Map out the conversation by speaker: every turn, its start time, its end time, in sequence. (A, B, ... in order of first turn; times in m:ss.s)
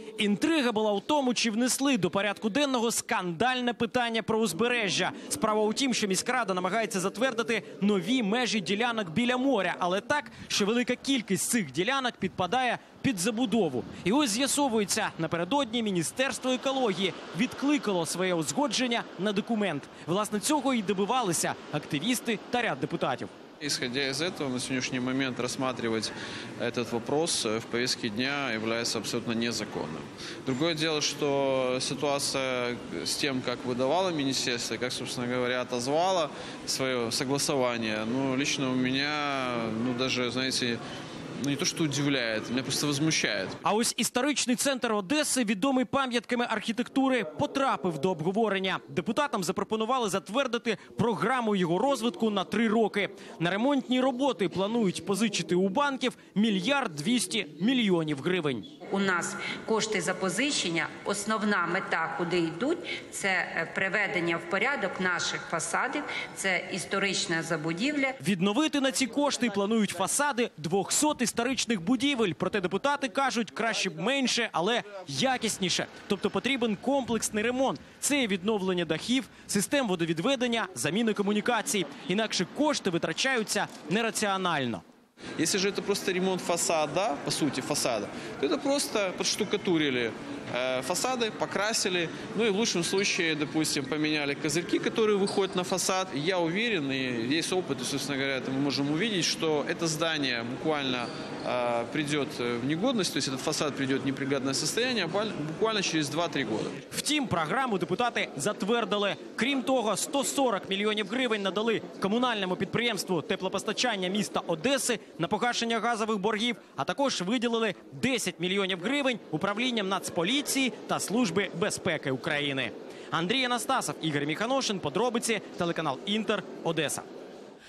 0:00.2-0:23.3 A
0:23.6-0:40.8 B
0:41.4-0:43.6 B
0:43.6-0:58.7 A
0:58.9-1:08.2 C
1:08.2-1:24.8 A
1:25.4-1:46.8 B
1:46.9-2:07.0 A